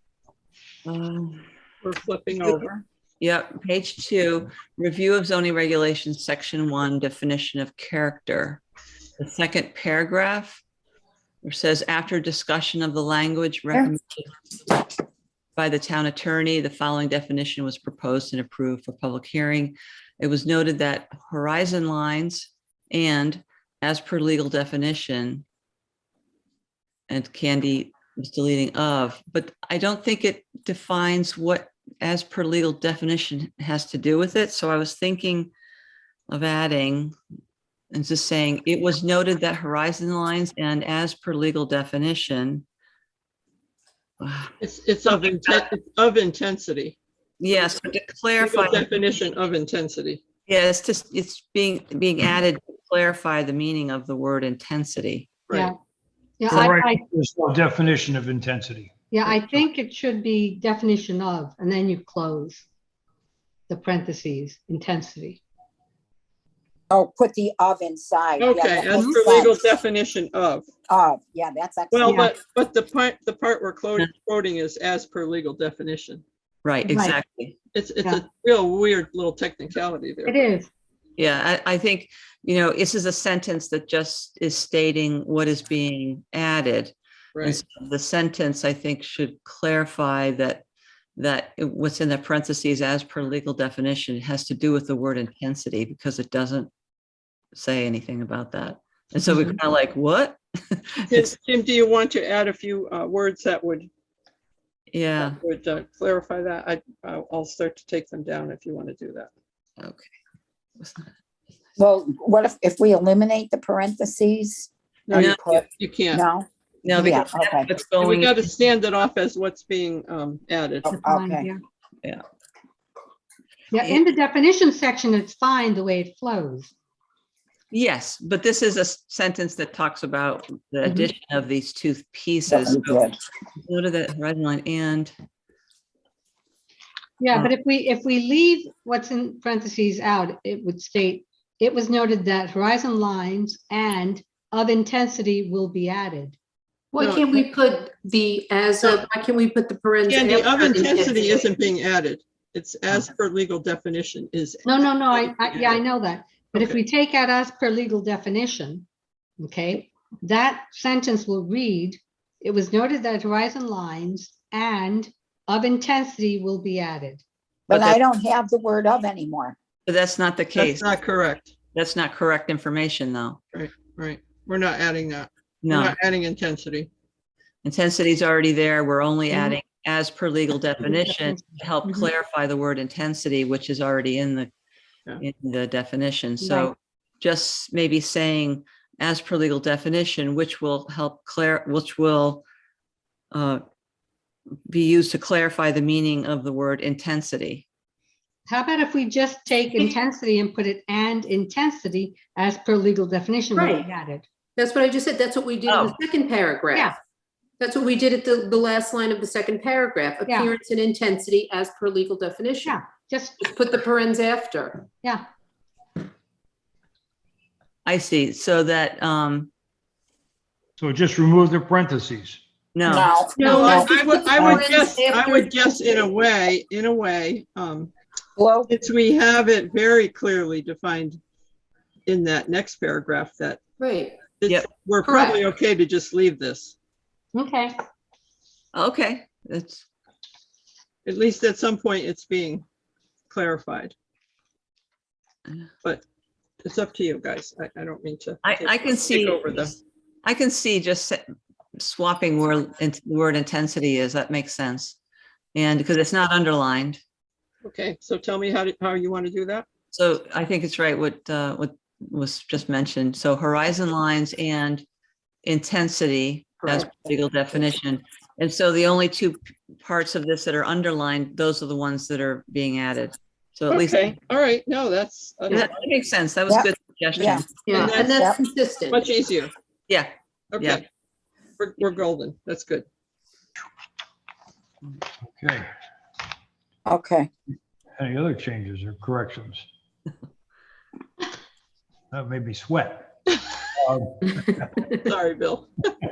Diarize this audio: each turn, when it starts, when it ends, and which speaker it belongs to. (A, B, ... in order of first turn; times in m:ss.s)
0:00.9-0:01.4 A
0:01.8-0:02.8 B
0:03.2-0:08.6 A
0:09.2-0:10.6 A
0:11.4-0:14.3 A
0:15.6-0:25.4 A
0:27.1-0:35.5 A
0:36.3-0:37.2 A
0:37.9-0:42.6 A
0:44.2-0:44.5 A
0:44.6-0:47.0 B
0:45.1-0:45.6 A
0:47.4-0:48.8 A
0:47.5-0:47.8 B
0:48.4-0:50.2 B
0:50.5-0:55.3 A
0:56.4-0:57.0 C
0:56.5-0:59.6 D
0:59.1-1:02.6 C
1:03.7-1:05.4 C
1:06.9-1:09.6 E
1:08.4-1:10.7 B
1:10.9-1:12.3 E
1:11.9-1:16.2 B
1:12.1-1:12.3 C
1:16.6-1:17.6 A
1:16.9-1:17.2 C
1:17.7-1:20.5 B
1:20.3-1:20.7 C
1:21.2-1:30.6 A
1:31.2-1:36.7 A
1:37.5-1:41.3 A
1:41.1-1:43.9 B
1:44.9-1:45.4 A
1:45.2-1:49.3 B
1:49.8-1:50.1 A
1:50.8-1:51.1 A
1:51.8-1:57.7 E
1:55.1-1:56.2 B
1:55.1-1:55.4 A
1:56.8-1:58.4 A
1:58.0-2:00.9 B
2:00.8-2:01.5 E
2:00.9-2:01.6 C
2:03.7-2:06.7 C
2:03.8-2:04.1 A
2:07.7-2:13.1 A
2:12.5-2:13.2 E
2:13.6-2:15.1 A
2:17.2-2:26.4 C
2:26.9-2:31.5 F
2:27.0-2:27.5 B
2:30.1-2:35.8 B
2:34.7-2:38.8 C
2:36.5-2:36.8 B
2:39.4-2:47.2 C
2:47.7-2:49.6 E
2:47.7-2:48.0 A
2:49.9-2:50.9 A
2:50.6-2:51.5 B
2:51.7-2:53.4 A
2:53.5-2:56.9 B
2:55.6-2:56.0 A
2:57.6-3:04.5 A
3:00.9-3:01.3 C
3:05.2-3:12.4 A
3:06.4-3:06.7 C
3:13.3-3:13.6 A
3:14.7-3:17.7 A
3:18.5-3:24.2 C
3:23.5-3:23.9 F
3:24.6-3:26.9 F
3:25.7-3:26.0 A
3:27.6-3:32.8 F
3:30.3-3:30.5 C
3:32.6-3:33.5 C
3:33.4-3:34.9 F
3:37.8-3:39.5 A
3:40.8-3:42.4 D
3:42.8-3:43.1 A
3:42.8-3:43.9 E
3:43.4-3:45.6 F
3:43.4-3:47.9 B
3:48.4-3:48.7 E
3:48.7-3:51.2 B
3:52.1-3:53.6 B
3:53.8-3:54.3 F
3:54.4-3:56.7 B
3:55.0-3:55.4 F
3:57.3-3:57.8 C
3:58.7-3:59.8 A
4:01.1-4:02.6 B
4:03.3-4:03.9 B
4:06.6-4:09.8 B
4:08.4-4:09.6 A
4:10.2-4:11.2 A
4:11.8-4:15.0 A
4:15.6-4:17.0 A
4:17.6-4:19.7 B
4:19.9-4:24.8 A
4:25.4-4:34.2 A
4:33.7-4:35.7 B
4:35.5-4:37.5 A
4:36.5-4:38.4 E
4:37.2-4:38.1 B
4:37.7-4:39.0 F
4:38.9-4:39.5 B
4:39.9-4:40.8 A
4:40.5-4:40.8 B
4:41.6-4:42.9 B
4:45.3-4:45.7 D
4:46.9-4:47.3 E
4:48.0-4:49.7 D
4:52.1-4:53.1 D
4:53.8-4:54.7 D
4:54.9-4:56.0 B